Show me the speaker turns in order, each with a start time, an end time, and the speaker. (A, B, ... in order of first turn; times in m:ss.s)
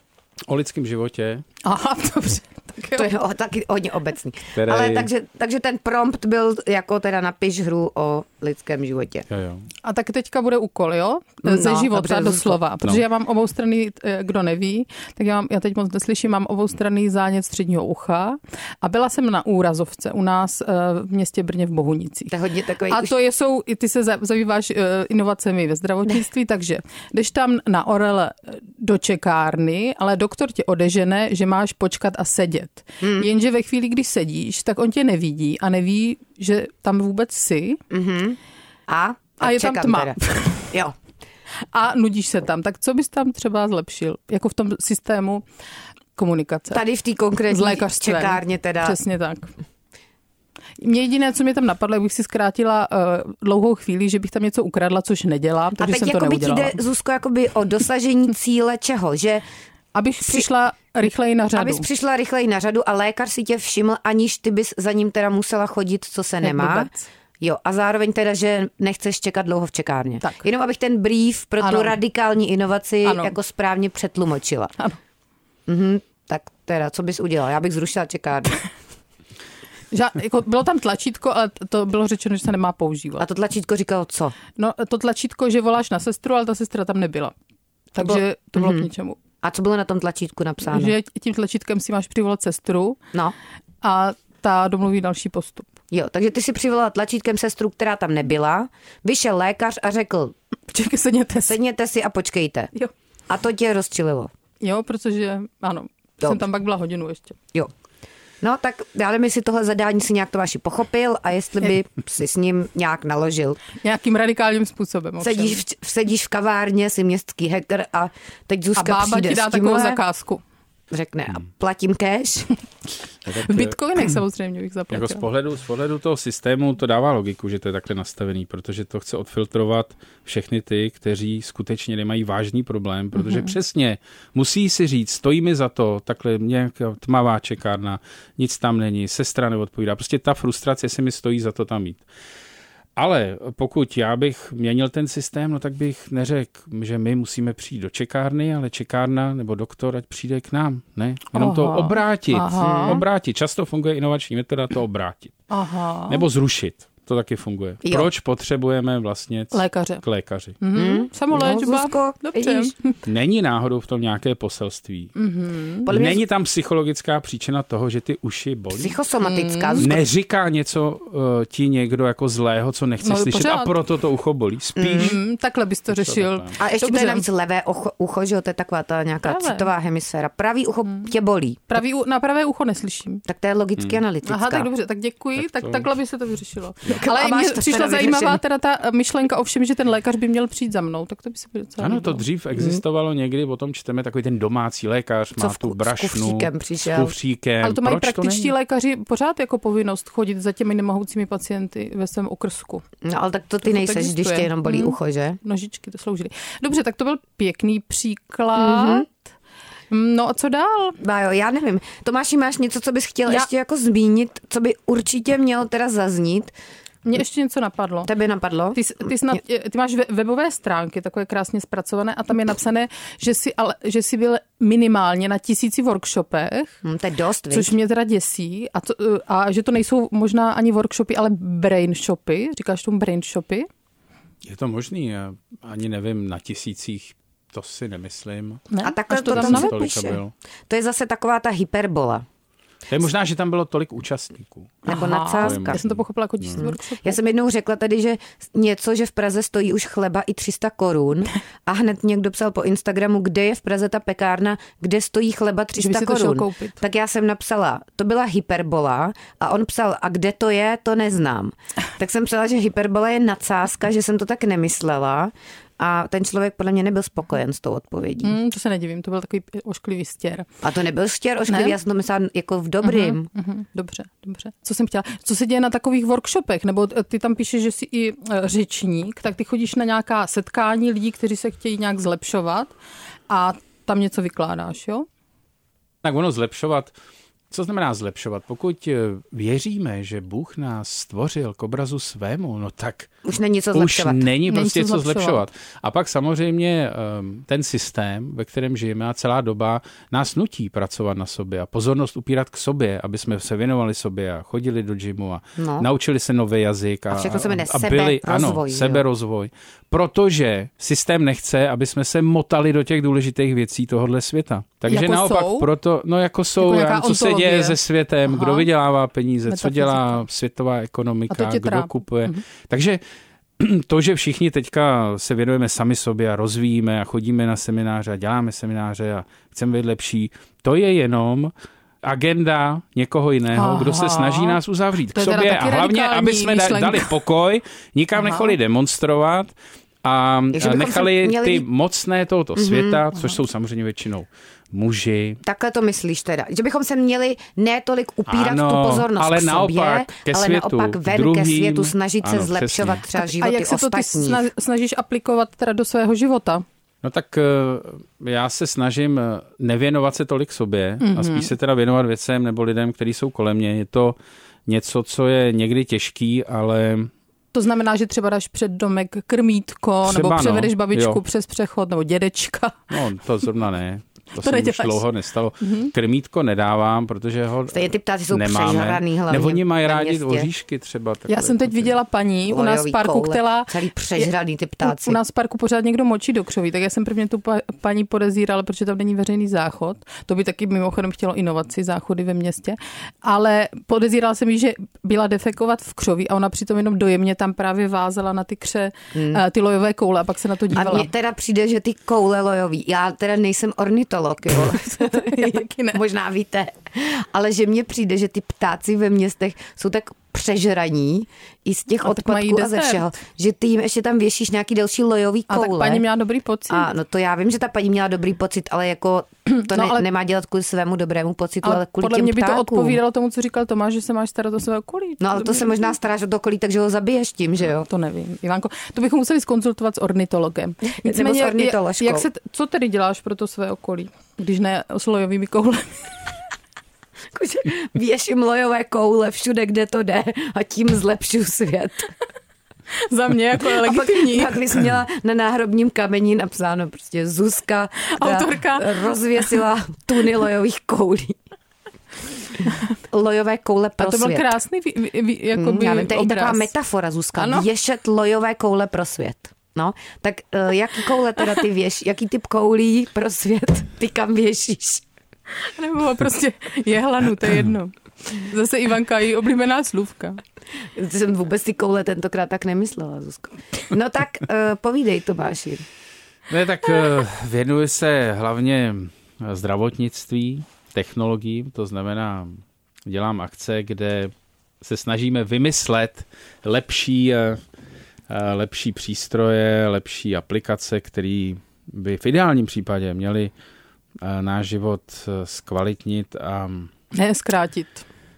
0:00.5-0:01.4 A
0:01.6-0:03.1 B
0:02.9-0:09.3 C
0:04.6-0:05.1 A
0:09.3-0:09.7 A
0:09.8-0:22.3 B
0:11.4-0:12.6 C
0:22.3-0:23.1 C
0:22.9-0:37.8 B
0:33.0-0:33.3 C
0:37.9-0:41.0 C
0:39.4-0:40.7 B
0:41.7-0:45.4 B
0:46.2-0:46.8 B
0:46.7-0:49.0 C
0:47.5-0:49.5 B
0:50.8-0:56.8 B
0:55.8-0:59.4 C
0:59.9-1:01.8 B
1:01.5-1:06.9 C
1:06.4-1:07.1 B
1:07.4-1:14.7 C
1:11.6-1:12.0 B
1:13.0-1:13.4 B
1:15.7-1:18.6 C
1:19.9-1:23.2 B
1:23.2-1:24.4 C
1:24.6-1:27.3 B
1:28.0-1:29.2 B
1:28.0-1:28.9 C
1:29.4-1:30.9 C
1:30.7-1:33.0 B
1:33.8-1:35.7 B
1:35.9-1:40.3 C
1:40.7-1:41.6 B
1:41.4-1:42.7 C
1:43.3-1:44.3 C
1:44.6-1:47.4 B
1:48.4-1:53.6 C
1:53.8-1:55.6 B
1:55.2-2:00.0 C
1:58.8-2:00.4 B
2:00.9-2:02.5 C
2:03.3-2:03.8 A
2:03.4-2:05.2 B
2:04.9-2:22.0 A
2:13.2-2:13.5 B
2:23.0-2:35.4 A
2:31.3-2:33.0 B
2:32.6-2:33.0 C
2:35.5-2:36.3 B
2:36.1-2:40.6 A
2:37.8-2:38.1 C
2:39.5-2:40.0 B
2:40.6-2:43.0 B
2:40.7-2:42.7 C
2:43.0-2:45.1 A
2:45.2-2:45.9 B
2:45.9-2:46.2 C
2:45.9-2:49.0 A
2:48.7-2:50.0 C
2:49.2-2:49.9 B
2:49.8-2:55.2 A
2:53.0-2:53.7 B
2:54.8-2:55.2 C
2:55.0-2:57.2 B
2:55.9-2:56.5 A
2:56.6-3:01.7 C
2:59.2-2:59.7 B
3:01.7-3:03.2 B
3:03.3-3:04.7 C
3:04.2-3:12.2 B
3:05.4-3:05.9 A
3:06.9-3:08.4 C
3:11.8-3:18.5 A
3:15.4-3:17.1 C
3:17.6-3:22.8 B
3:23.0-3:25.4 C
3:23.6-3:29.1 B
3:28.5-3:29.1 C
3:29.9-3:31.0 B
3:31.0-3:36.5 C
3:37.0-3:38.1 B
3:38.0-3:38.8 C
3:38.8-3:46.8 B
3:46.8-3:47.7 C
3:47.5-3:53.7 B
3:54.4-3:58.7 A
3:58.7-3:59.8 B
3:58.8-4:02.2 C
3:59.2-4:00.3 A
4:02.9-4:06.6 A
4:04.9-4:05.8 C
4:04.9-4:07.2 B
4:06.6-4:28.4 C
4:15.8-4:16.8 B
4:28.2-4:30.5 B
4:30.6-4:33.3 C
4:31.5-4:31.8 B
4:32.8-4:42.7 B
4:43.3-4:45.1 B
4:46.0-4:46.9 A
4:47.5-4:53.1 A
4:53.2-4:54.3 C
4:53.7-5:23.0 A
4:54.5-4:55.4 B
5:05.6-5:05.9 C
5:07.1-5:09.0 C
5:14.9-5:15.7 B
5:16.6-5:18.7 B
5:19.5-5:20.2 B
5:21.3-5:22.4 B
5:23.6-5:39.5 A
5:33.6-5:34.6 B
5:35.1-5:37.1 B
5:40.0-5:45.4 A
5:40.5-5:41.7 C
5:42.6-5:43.0 C
5:45.4-5:54.4 C
5:48.3-5:53.0 A
5:53.2-5:56.6 B
5:57.0-6:07.1 A
6:01.0-6:01.5 B
6:07.5-6:12.8 B
6:10.0-6:11.2 A
6:12.9-6:17.8 A
6:14.4-6:15.0 B
6:15.6-6:15.9 B
6:17.7-6:20.5 C
6:18.3-6:22.0 A
6:21.3-6:24.3 B
6:22.5-6:25.2 C
6:24.8-6:41.1 B
6:39.1-6:39.4 C
6:40.7-6:56.0 C
6:45.0-6:46.0 B
6:52.0-6:53.0 B
6:55.5-6:56.9 B
6:56.7-7:03.0 C
6:59.7-7:00.0 B
7:01.6-7:05.9 B
7:05.2-7:07.9 C
7:07.9-7:15.9 B
7:10.8-7:12.3 C
7:17.3-7:22.1 C
7:23.1-7:24.6 B
7:23.6-7:31.4 C
7:28.2-7:29.6 B
7:33.0-7:34.5 C
7:34.0-7:36.7 B
7:35.6-7:45.0 C
7:37.4-7:37.7 B
7:45.8-7:50.4 B
7:51.0-7:55.8 C
7:56.5-8:07.6 A
8:08.3-8:13.5 A
8:14.2-8:16.9 A
8:17.1-8:18.0 B